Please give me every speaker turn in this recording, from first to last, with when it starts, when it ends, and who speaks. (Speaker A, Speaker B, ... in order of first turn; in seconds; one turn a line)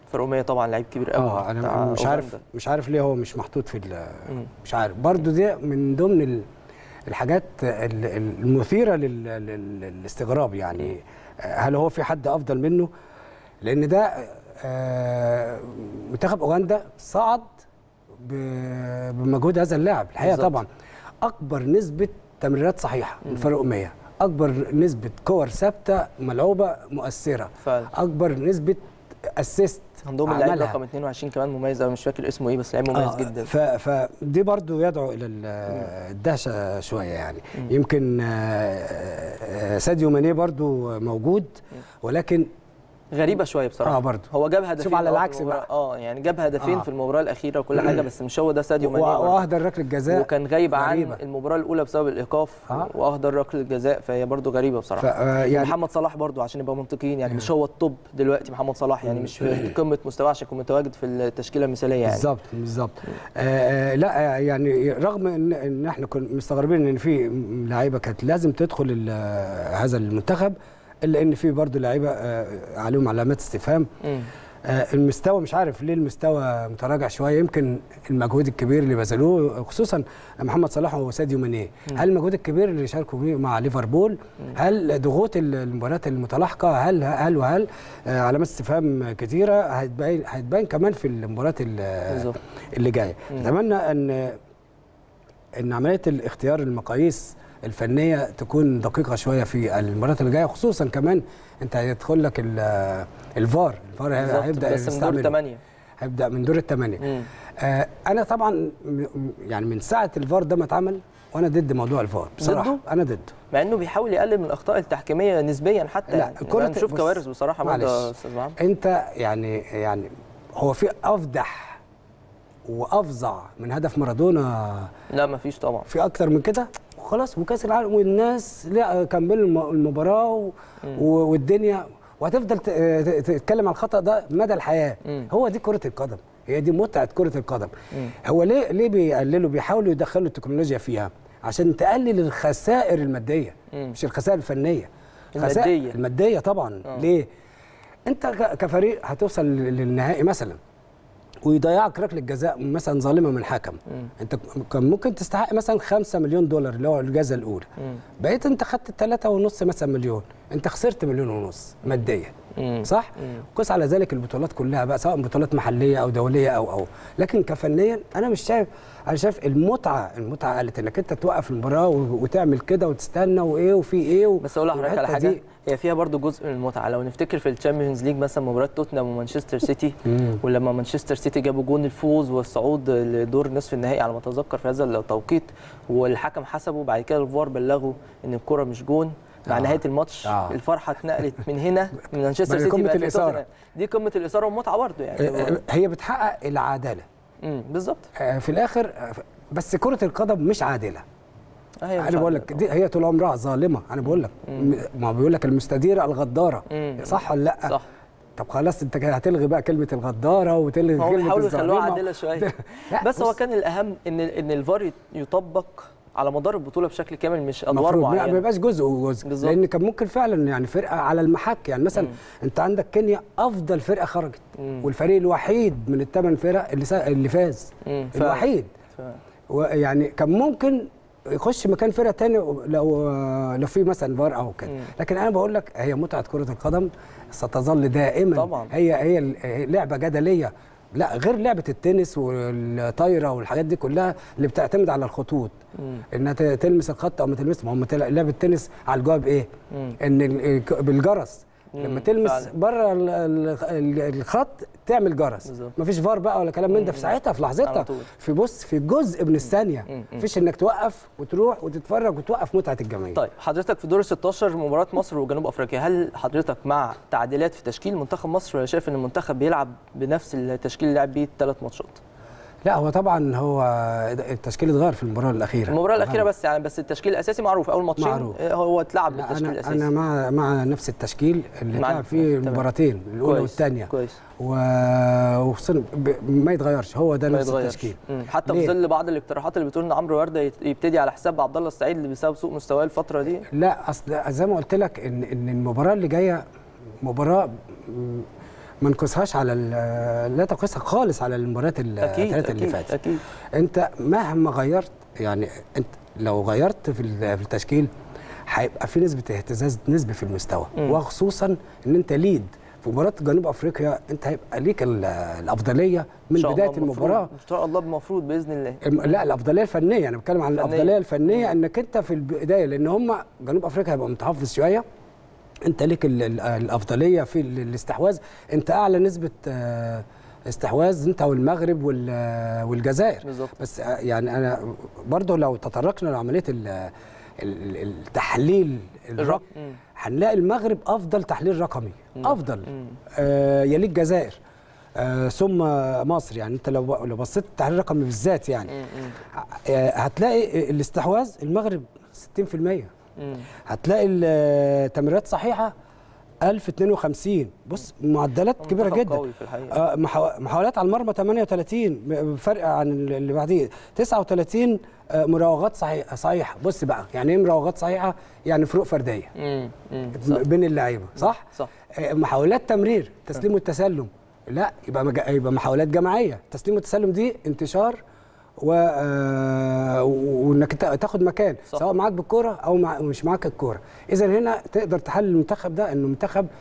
Speaker A: 0.1-2.4
Speaker B: 1.1-6.5
Speaker B: 7.1-12.9
Speaker B: 13.6-17.6
Speaker B: 18.2-20.7
Speaker A: 20.2-20.6
Speaker B: 21.2-30.8
Speaker A: 27.6-27.9
Speaker A: 30.1-33.5
Speaker B: 32.9-42.5
Speaker A: 43.1-49.4
Speaker B: 43.8-45.7
Speaker B: 48.8-51.2
Speaker A: 50.1-62.3
Speaker B: 55.0-55.7
Speaker B: 59.0-59.7
Speaker B: 62.1-73.9
Speaker A: 74.0-74.3
Speaker B: 74.7-94.4
Speaker A: 92.1-92.4
Speaker B: 95.6-105.4
Speaker A: 104.2-105.6
Speaker B: 106.0-113.3
Speaker A: 107.0-107.3
Speaker A: 112.4-112.8
Speaker A: 113.5-118.6
Speaker B: 116.1-121.8
Speaker B: 122.7-124.9
Speaker A: 125.1-125.9
Speaker B: 125.9-147.3
Speaker A: 143.7-144.0
Speaker A: 145.3-146.0
Speaker B: 148.1-150.6
Speaker B: 151.4-157.7
Speaker B: 158.2-175.4
Speaker A: 162.6-163.4
Speaker A: 174.4-195.6
Speaker B: 180.1-180.4
Speaker B: 189.5-190.6
Speaker B: 192.5-193.4
Speaker B: 195.2-197.1
Speaker A: 197.4-198.1
Speaker B: 198.2-201.0
Speaker A: 201.8-202.6
Speaker B: 202.0-207.8
Speaker A: 204.5-204.8
Speaker A: 206.7-207.9
Speaker B: 208.4-213.3
Speaker A: 211.0-218.4
Speaker B: 217.7-228.7
Speaker A: 219.2-219.6
Speaker A: 224.6-224.9
Speaker A: 227.8-229.2
Speaker B: 229.5-245.6
Speaker A: 238.3-238.7
Speaker A: 245.8-246.0
Speaker B: 246.1-249.5
Speaker A: 249.7-250.0
Speaker B: 250.0-263.2
Speaker A: 251.7-252.5
Speaker A: 255.5-255.7
Speaker A: 256.7-257.1
Speaker A: 257.6-258.1
Speaker A: 259.9-260.2
Speaker A: 263.1-272.0
Speaker B: 272.6-276.2
Speaker A: 275.7-279.9
Speaker B: 278.0-278.4
Speaker B: 279.1-288.7
Speaker A: 281.8-282.6
Speaker A: 283.2-284.2
Speaker A: 287.3-293.5
Speaker B: 293.5-296.4
Speaker B: 297.0-298.3
Speaker B: 298.8-303.0
Speaker A: 302.0-303.2
Speaker B: 303.5-307.9
Speaker B: 308.5-317.3
Speaker A: 316.4-319.1
Speaker B: 318.8-324.8
Speaker A: 320.6-321.5
Speaker B: 325.6-339.4
Speaker A: 333.2-333.6
Speaker A: 339.2-339.8
Speaker B: 339.9-344.4
Speaker A: 342.2-343.0
Speaker B: 345.0-348.8
Speaker A: 348.7-349.1
Speaker B: 349.3-352.9
Speaker A: 353.2-353.5
Speaker B: 353.7-355.7
Speaker B: 356.4-369.3
Speaker A: 358.6-359.8
Speaker A: 369.4-370.4
Speaker B: 370.2-378.0
Speaker A: 371.2-371.7
Speaker B: 378.6-386.5